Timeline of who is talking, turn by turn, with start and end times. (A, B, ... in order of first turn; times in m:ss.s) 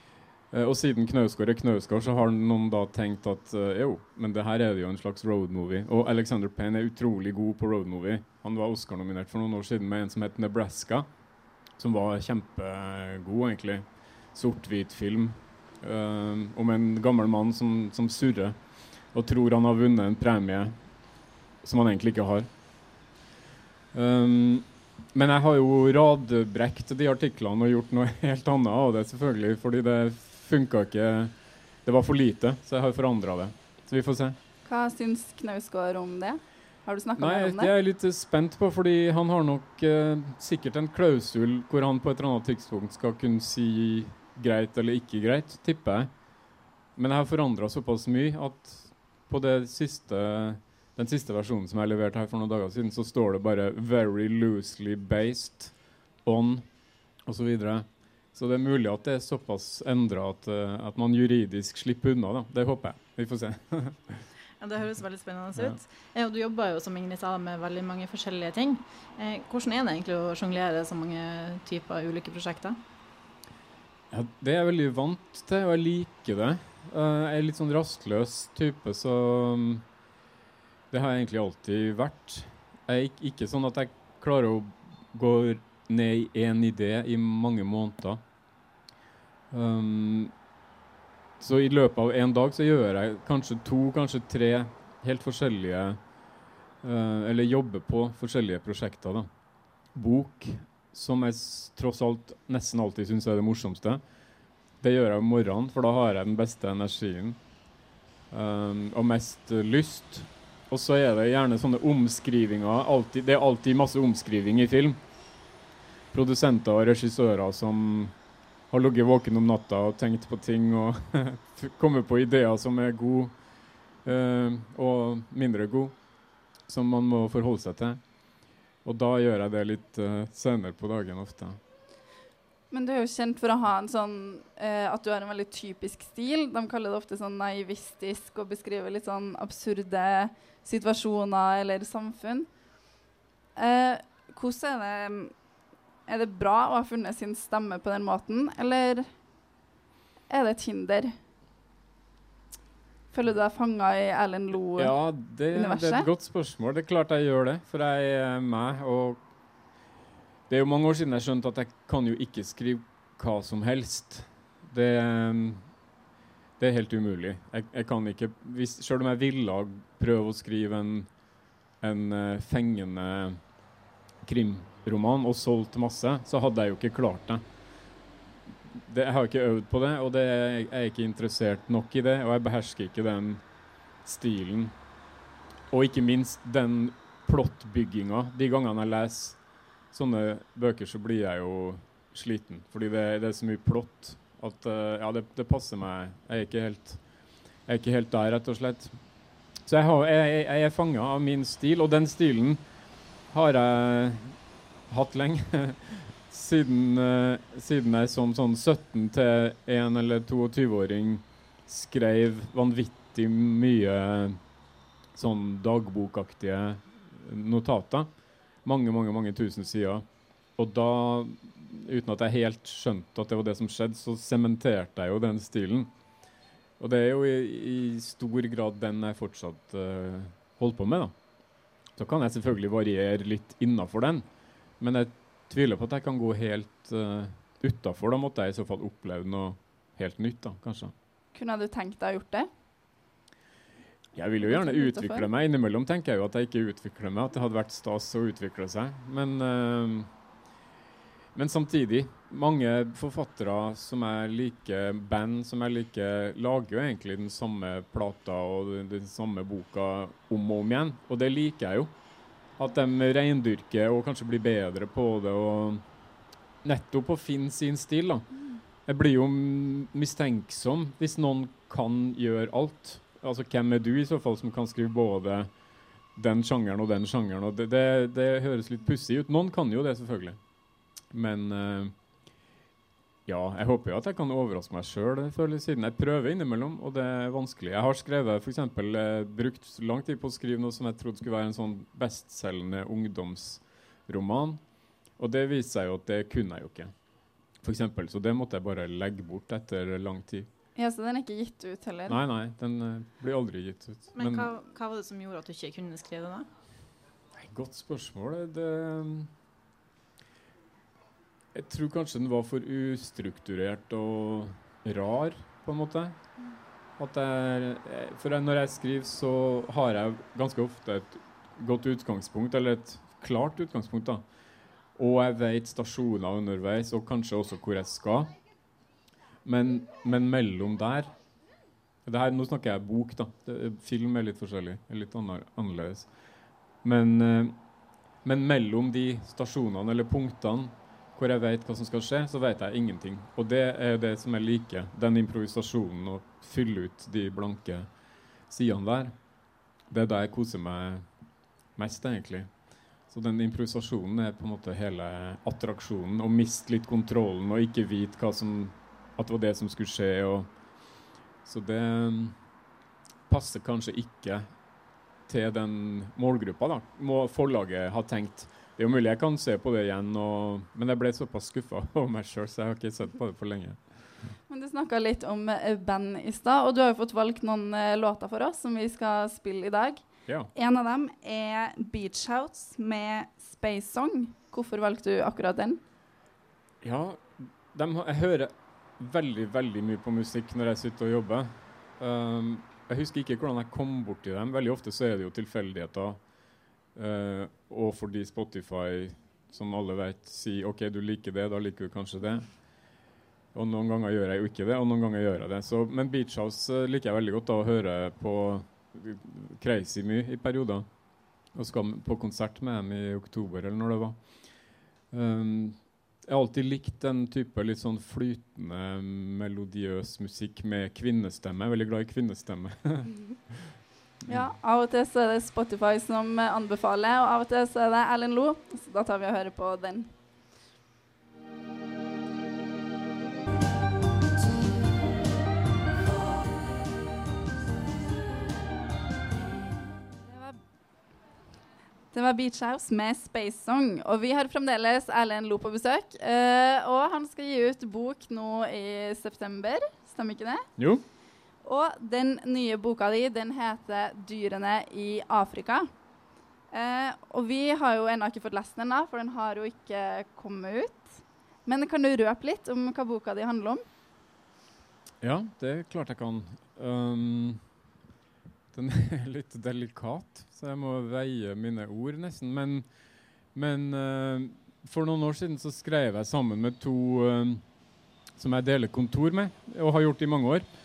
0:00.5-0:11.1 A
0:11.8-0:18.6 A
0:19.1-0:20.8 A
0:21.6-0:22.5 A
0:23.9-0:31.3 A
0:31.8-0:34.4 A
0:34.6-0:37.7 B
0:37.2-0:46.1 A
0:47.0-0:55.7 A
0:56.2-0:56.6 A
0:57.2-1:04.3 A
1:04.6-1:12.8 C
1:14.1-1:19.8 A
1:20.9-1:28.2 A
1:29.5-1:30.3 A
1:31.4-1:36.0 A
1:36.8-1:39.3 A
1:39.9-1:44.0 A
1:44.8-1:47.4 A
1:48.3-1:55.0 A
1:56.1-1:58.1 A
1:58.7-2:03.3 A
2:04.0-2:05.9 A
2:06.7-2:08.0 A
2:08.8-2:11.6 A
2:12.7-2:22.5 B
2:23.6-2:25.3 B
2:26.1-2:29.1 B
2:30.3-2:31.1 B
2:33.1-2:34.9 B
2:34.8-2:39.2 A
2:35.5-2:36.1 B
2:40.5-2:45.7 A
2:46.6-2:51.1 A
2:51.8-2:53.4 A
2:54.2-2:57.4 A
2:58.7-3:03.4 A
3:04.0-3:04.7 A
3:05.7-3:09.4 A
3:09.9-3:17.0 A
3:17.6-3:19.0 A
3:19.6-3:22.6 A
3:23.3-3:24.4 A
3:24.9-3:34.4 A
3:35.1-3:38.1 A
3:38.6-3:40.0 A
3:40.6-3:45.9 A
3:46.8-3:51.1 A
3:52.0-3:54.2 A
3:54.8-4:00.9 A
4:01.3-4:02.5 B
4:04.1-4:10.1 A
4:04.4-4:05.3 B
4:11.3-4:21.9 A
4:22.6-4:25.8 A
4:26.6-4:28.3 A
4:28.8-4:35.5 A
4:36.1-4:40.4 A
4:41.1-4:41.9 A
4:43.2-4:54.6 A
4:55.2-4:56.9 A
4:57.6-5:00.5 A
5:00.7-5:02.2 B
5:02.1-5:04.5 A
5:04.1-5:06.5 C
5:07.4-5:09.3 A
5:11.5-5:16.2 A
5:17.0-5:24.2 A
5:25.0-5:28.3 A
5:29.4-5:31.1 A
5:32.0-5:36.1 A
5:36.8-5:37.5 A
5:38.2-5:47.9 A
5:48.5-5:49.1 A
5:49.9-5:51.0 A
5:51.8-5:52.5 A
5:53.1-6:00.5 A
6:01.4-6:02.4 A
6:03.3-6:04.4 A
6:05.3-6:13.8 A
6:14.5-6:25.8 B
6:26.8-6:36.2 A
6:36.9-6:42.5 A
6:43.5-6:50.8 A
6:51.5-6:54.2 A
6:55.1-7:03.8 A
7:04.3-7:10.1 B
7:20.2-7:20.6 B
7:22.1-7:30.6 B
7:30.8-7:31.0 A
7:31.6-7:35.9 B
7:36.7-7:43.8 B
7:45.2-7:47.6 A
7:48.7-7:52.8 A
7:53.5-7:57.6 A
7:58.4-8:00.7 A